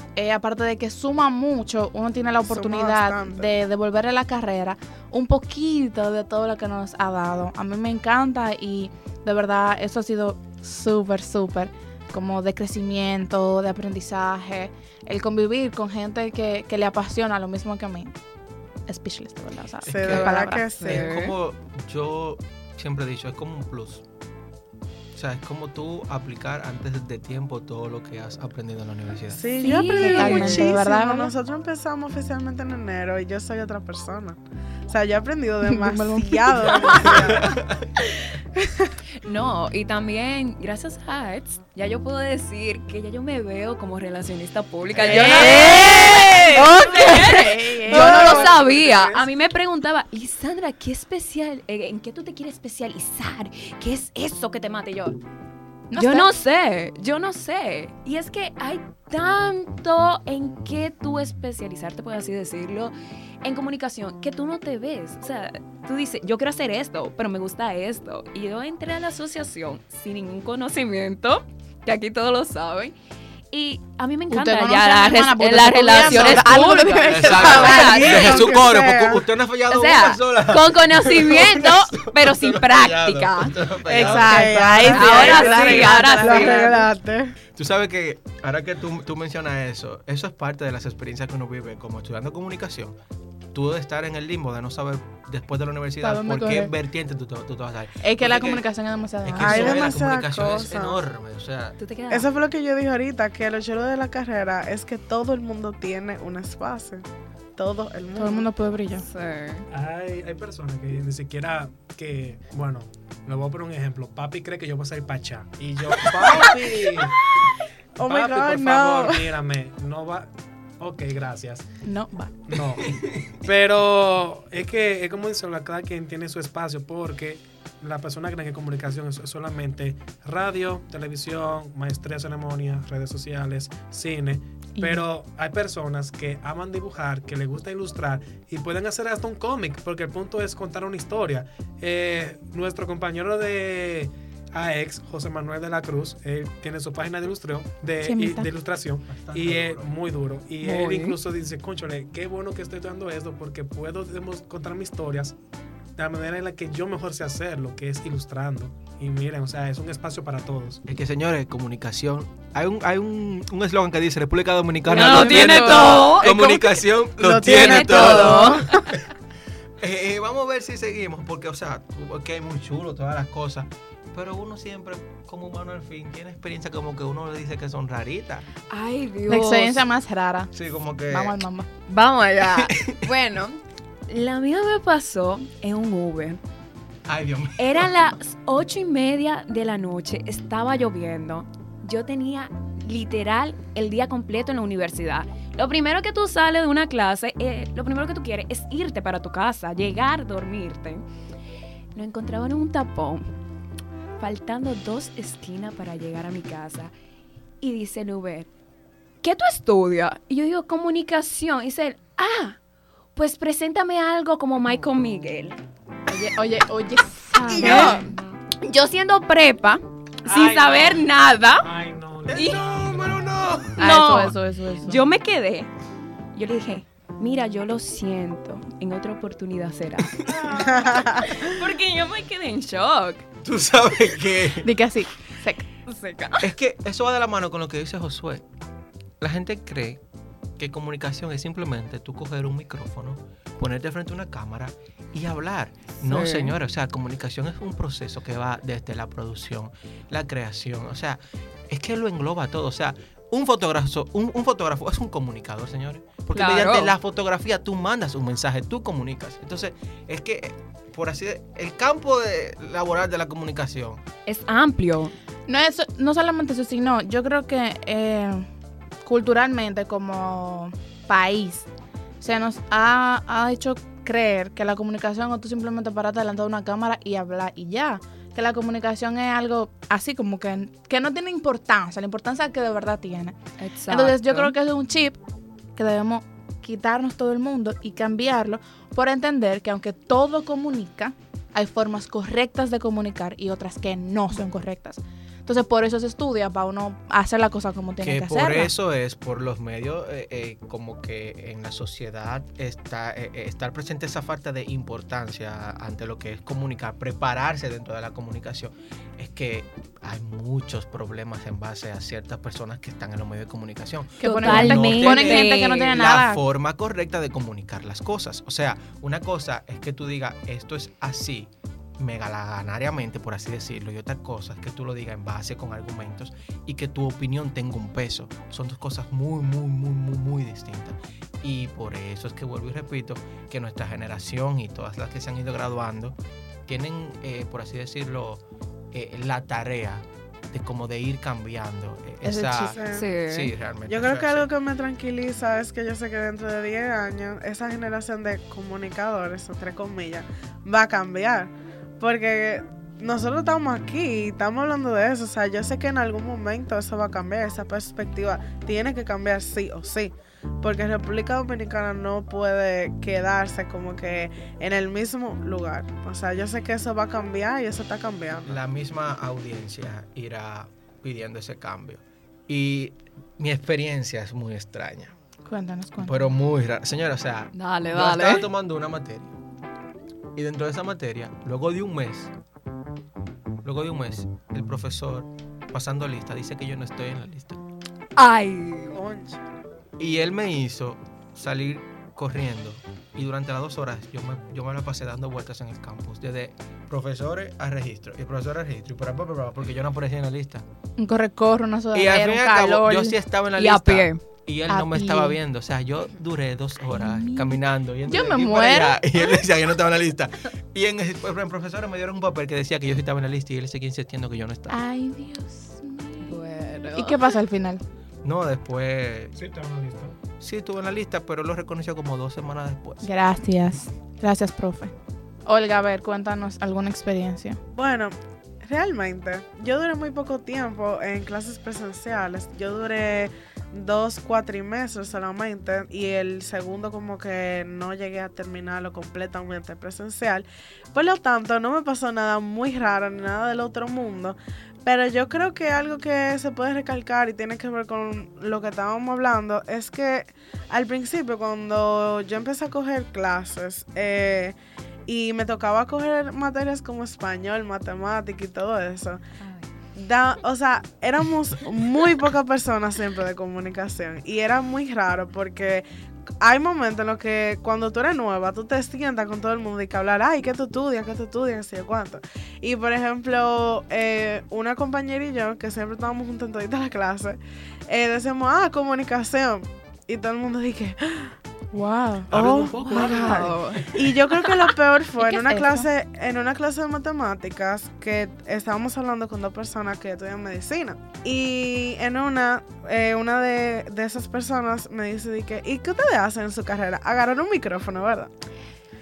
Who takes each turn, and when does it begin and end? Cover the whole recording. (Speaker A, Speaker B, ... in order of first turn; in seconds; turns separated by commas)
Speaker A: 0.1-18.2, Speaker B: 2.5-3.5, Speaker A: 18.9-20.7, Speaker C: 19.8-24.0, Speaker B: 19.9-21.1, Speaker D: 20.8-21.4, Speaker C: 25.1-29.5, Speaker B: 29.3-37.6, Speaker D: 29.6-30.7, Speaker A: 29.6-31.3, Speaker A: 35.6-36.8, Speaker C: 37.0-37.8, Speaker B: 38.6-38.9, Speaker D: 39.2-55.2, Speaker B: 45.0-47.2, Speaker A: 45.0-45.9, Speaker A: 46.7-48.5, Speaker B: 47.9-48.4, Speaker E: 47.9-49.2, Speaker A: 55.9-56.3, Speaker D: 56.0-72.9, Speaker D: 73.5-78.5, Speaker A: 74.3-77.9, Speaker C: 76.0-76.4, Speaker C: 77.0-84.6, Speaker B: 77.4-79.2, Speaker D: 79.7-83.5, Speaker A: 83.8-86.8, Speaker B: 83.9-87.3, Speaker D: 84.8-86.8, Speaker C: 87.5-93.0, Speaker C: 93.5-98.6, Speaker A: 96.0-96.7, Speaker A: 98.0-100.0, Speaker C: 99.2-101.8, Speaker B: 99.4-101.0, Speaker D: 101.8-102.3, Speaker B: 102.1-107.0, Speaker B: 107.6-108.5, Speaker A: 108.2-109.0, Speaker D: 109.0-109.7, Speaker E: 109.7-117.2, Speaker B: 116.2-116.9, Speaker E: 118.0-120.3, Speaker B: 118.0-119.3, Speaker E: 120.8-121.6, Speaker A: 121.8-122.3, Speaker E: 122.5-155.3, Speaker A: 134.8-135.0, Speaker A: 148.0-148.5, Speaker C: 149.1-149.9, Speaker D: 150.6-151.2, Speaker E: 156.0-160.8, Speaker C: 160.8-168.7, Speaker D: 164.9-166.8, Speaker A: 164.9-166.0, Speaker B: 167.2-168.9, Speaker D: 167.4-168.8, Speaker C: 169.8-178.5, Speaker D: 178.7-179.8, Speaker A: 179.3-180.5, Speaker C: 180.5-181.4, Speaker A: 181.1-181.7, Speaker D: 181.9-186.4, Speaker C: 182.5-183.1, Speaker C: 187.1-187.9, Speaker D: 187.6-201.0, Speaker D: 201.9-203.3, Speaker D: 204.2-206.9, Speaker D: 207.6-208.5, Speaker D: 209.2-212.6, Speaker D: 213.1-215.6, Speaker A: 216.1-218.1, Speaker B: 217.4-218.0, Speaker D: 217.6-218.1, Speaker D: 218.6-221.7, Speaker E: 220.2-221.1, Speaker E: 221.6-223.4, Speaker C: 222.2-223.8, Speaker D: 222.3-222.6, Speaker A: 223.8-225.0, Speaker D: 223.8-225.7, Speaker D: 226.3-230.3, Speaker E: 230.2-231.0, Speaker B: 230.5-231.4, Speaker D: 231.1-233.2, Speaker C: 233.4-234.7, Speaker A: 234.6-235.7, Speaker D: 235.8-236.5, Speaker C: 236.4-238.4, Speaker C: 239.2-240.0, Speaker C: 240.6-264.0, Speaker D: 246.0-246.5, Speaker D: 256.3-256.9, Speaker D: 264.2-265.1, Speaker A: 265.5-268.5, Speaker A: 269.0-271.7, Speaker A: 272.2-283.4, Speaker D: 283.6-284.5, Speaker A: 283.9-285.2, Speaker A: 285.8-298.7, Speaker C: 298.0-336.1, Speaker A: 314.2-316.4, Speaker D: 314.2-316.0, Speaker C: 336.7-344.5, Speaker A: 342.2-342.7, Speaker B: 342.6-343.1, Speaker D: 342.9-343.5, Speaker B: 343.9-368.6, Speaker C: 368.4-375.1, Speaker A: 375.4-376.3, Speaker C: 376.0-379.3, Speaker D: 377.6-378.4, Speaker C: 380.3-382.3, Speaker C: 383.6-387.6, Speaker D: 388.2-389.0, Speaker B: 388.9-389.4, Speaker C: 390.0-400.6, Speaker A: 401.0-403.2, Speaker C: 401.9-414.8, Speaker D: 403.6-404.2, Speaker A: 404.7-405.4, Speaker D: 406.9-407.6, Speaker A: 408.1-409.0, Speaker A: 414.7-417.8, Speaker D: 416.2-417.4, Speaker C: 418.2-419.3, Speaker E: 419.3-420.1, Speaker C: 420.4-423.1, Speaker A: 423.0-424.9, Speaker A: 425.4-427.6, Speaker B: 427.7-454.6, Speaker B: 455.1-459.2, Speaker D: 459.4-459.7, Speaker B: 459.9-465.8, Speaker B: 466.4-481.4, Speaker A: 481.7-482.3, Speaker E: 482.3-484.1, Speaker B: 482.3-498.3, Speaker D: 482.8-484.7, Speaker A: 483.1-483.5, Speaker A: 485.2-485.9